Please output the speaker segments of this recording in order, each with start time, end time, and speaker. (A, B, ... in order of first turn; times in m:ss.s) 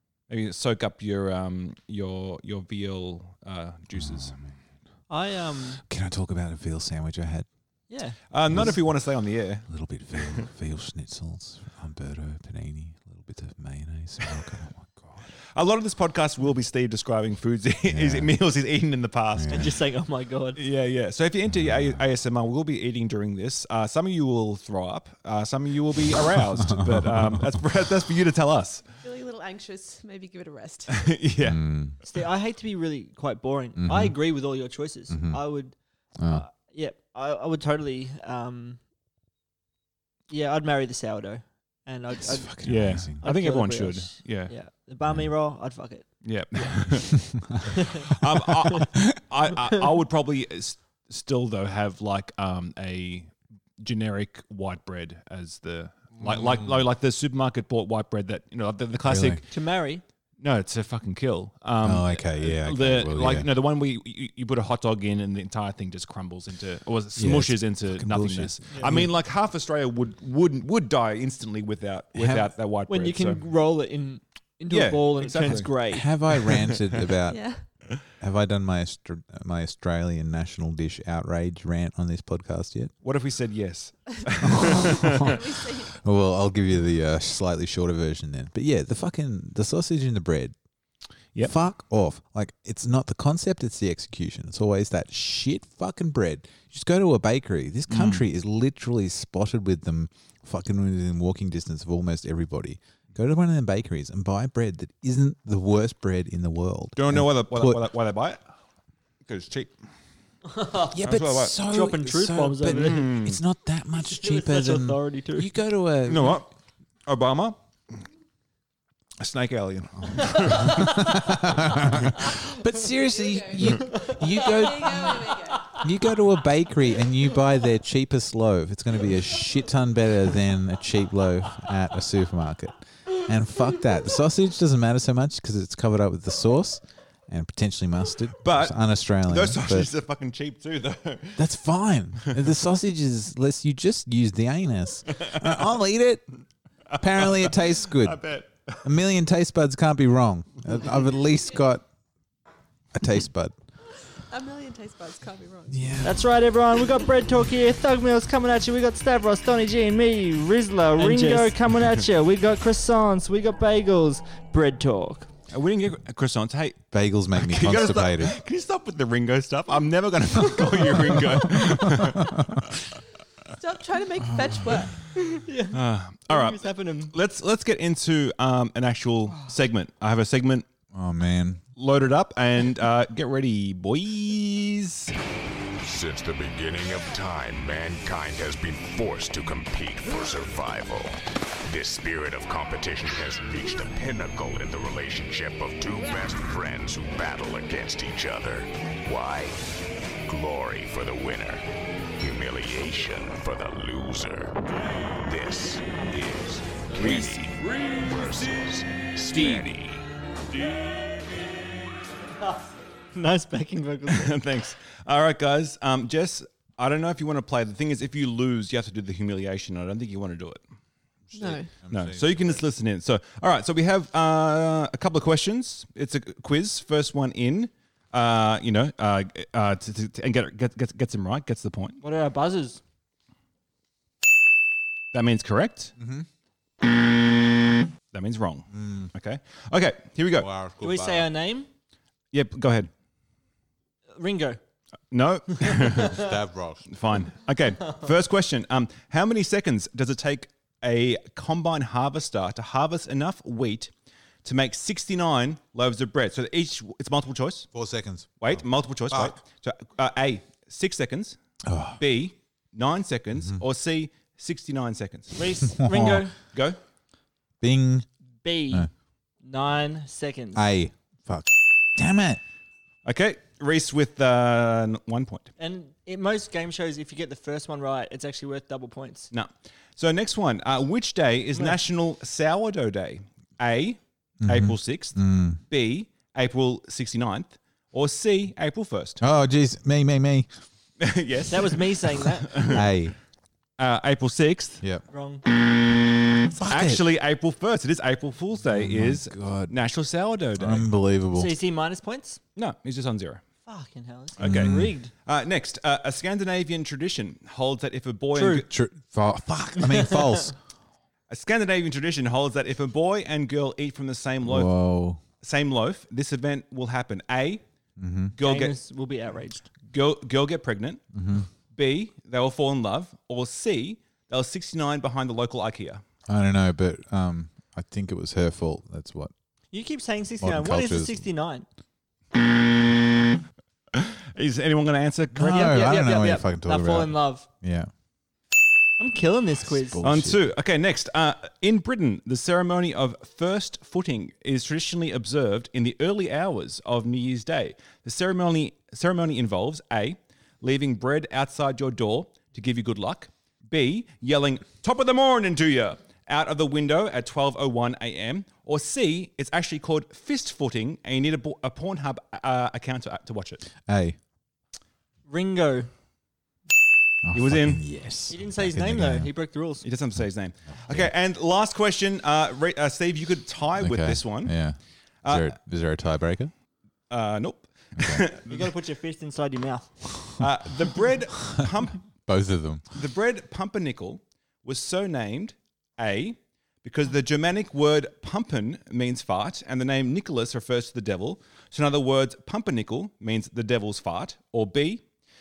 0:00.3-0:04.3 A
0:03.9-0:04.6 B
0:05.1-0:05.8 C
0:05.8-0:07.5 B
0:07.9-0:08.2 C
0:08.3-0:10.4 A
0:08.5-0:15.3 B
0:15.5-0:19.7 A
0:17.9-0:18.3 B
0:19.3-0:19.7 B
0:19.5-0:20.6 C
0:20.6-0:28.8 A
0:21.5-0:22.0 B
0:26.7-0:27.4 B
0:29.0-0:31.1 D
0:30.9-0:31.7 A
0:31.4-0:32.0 B
0:32.0-0:38.8 C
0:33.8-0:34.2 B
0:35.1-0:35.4 B
0:36.2-0:36.4 B
0:40.3-0:47.2 C
0:42.2-0:43.2 B
0:42.6-0:44.5 A
0:45.0-0:45.3 B
0:46.2-0:47.1 A
0:48.1-0:59.4 A
0:56.2-0:56.8 B
0:59.0-0:59.4 B
0:59.5-1:00.0 C
1:00.4-1:13.4 A
1:01.8-1:03.5 B
1:07.2-1:09.1 B
1:12.1-1:12.5 B
1:12.9-1:16.1 C
1:14.7-1:15.7 A
1:15.9-1:22.9 B
1:16.3-1:16.8 A
1:17.3-1:17.6 D
1:23.0-1:25.3 A
1:24.6-1:25.3 B
1:25.2-1:26.0 D
1:25.9-1:30.5 B
1:31.4-1:47.8 B
1:37.9-1:38.2 A
1:47.0-1:48.4 A
1:49.2-1:49.8 A
1:50.5-1:51.0 C
1:50.9-1:56.4 B
1:51.0-1:51.6 A
1:51.6-1:53.1 C
1:52.7-1:53.4 A
1:54.0-1:55.5 C
1:56.0-1:56.5 A
1:57.0-1:57.6 A
1:59.2-2:01.0 A
2:00.0-2:19.9 B
2:02.9-2:05.8 D
2:03.9-2:04.4 C
2:18.4-2:21.4 A
2:21.4-2:26.2 B
2:26.9-2:28.8 A
2:27.0-2:28.2 B
2:28.8-2:31.8 B
2:32.9-2:33.5 B
2:34.0-2:36.0 D
2:35.7-2:36.2 B
2:36.0-2:45.3 C
2:41.0-2:41.6 A
2:45.5-2:52.7 A
2:46.9-2:48.4 B
2:51.6-2:52.6 B
2:53.6-2:55.0 D
2:54.3-2:54.6 B
2:55.2-2:57.1 C
2:55.7-3:00.7 A
3:00.9-3:01.6 B
3:01.8-3:05.1 A
3:05.8-3:19.6 E
3:20.2-3:21.6 E
3:22.2-3:24.5 E
3:25.2-3:30.0 E
3:29.3-3:29.7 A
3:33.1-3:34.4 C
3:34.1-3:40.6 A
3:41.3-3:42.6 B
3:41.3-3:41.7 D
3:41.9-3:52.0 A
3:52.0-3:52.8 C
3:55.1-3:55.9 A
3:56.0-3:56.3 B
3:58.1-4:00.5 A
3:58.7-3:59.1 B
4:00.3-4:01.3 B
4:00.8-4:01.7 C
4:02.3-4:02.9 A
4:04.1-4:04.6 C
4:05.1-4:06.3 A
4:06.0-4:06.9 B
4:06.9-4:13.9 A
4:14.4-4:17.7 A
4:17.7-4:19.4 B
4:18.4-4:21.4 A
4:21.6-4:22.0 B
4:22.0-4:25.3 A
4:23.3-4:23.6 B
4:25.3-4:26.3 C
4:25.8-4:26.3 B
4:26.5-4:26.8 A
4:27.6-4:28.1 B
4:28.4-4:28.9 C
4:29.4-4:30.6 C
4:30.5-4:32.4 B
4:33.0-4:35.5 A
4:35.6-4:39.3 C
4:39.3-4:49.2 A
4:44.4-4:45.6 B
4:49.2-4:50.5 B
4:51.0-4:52.8 A
4:51.5-4:52.8 C
4:52.7-4:53.2 B
4:53.8-4:54.8 A
4:55.1-4:55.4 C
4:56.5-4:57.0 B
4:56.7-5:00.9 A
4:58.6-4:59.7 B
5:00.6-5:01.5 B
5:01.3-5:02.4 C
5:02.6-5:03.4 A
5:03.6-5:05.1 C
5:04.4-5:08.7 A
5:04.4-5:04.9 B
5:08.3-5:08.6 C
5:08.6-5:10.6 B
5:09.9-5:10.2 C
5:11.3-5:14.7 A
5:14.4-5:15.2 B
5:15.4-5:17.6 A
5:18.0-5:18.3 B
5:18.3-5:18.8 A
5:18.4-5:19.6 C
5:19.9-5:21.0 A
5:21.1-5:21.5 B
5:21.7-5:26.0 A
5:26.3-5:29.3 B
5:29.7-5:31.6 C
5:30.4-5:31.2 B
5:34.0-5:35.8 A
5:35.3-5:37.9 B
5:35.5-5:37.5 C
5:39.0-5:40.0 C
5:39.7-5:40.4 B
5:40.0-6:03.6 A
6:03.8-6:04.2 B
6:05.2-6:05.9 C
6:07.2-6:09.3 B
6:07.3-6:07.8 A
6:08.3-6:09.8 C
6:09.8-6:14.6 A
6:10.8-6:11.1 B
6:13.8-6:16.5 B
6:15.2-6:15.5 A
6:17.1-6:18.6 A
6:18.0-6:18.2 B
6:18.5-6:20.1 C
6:20.4-6:22.0 A
6:22.2-6:22.8 B
6:22.9-6:35.0 A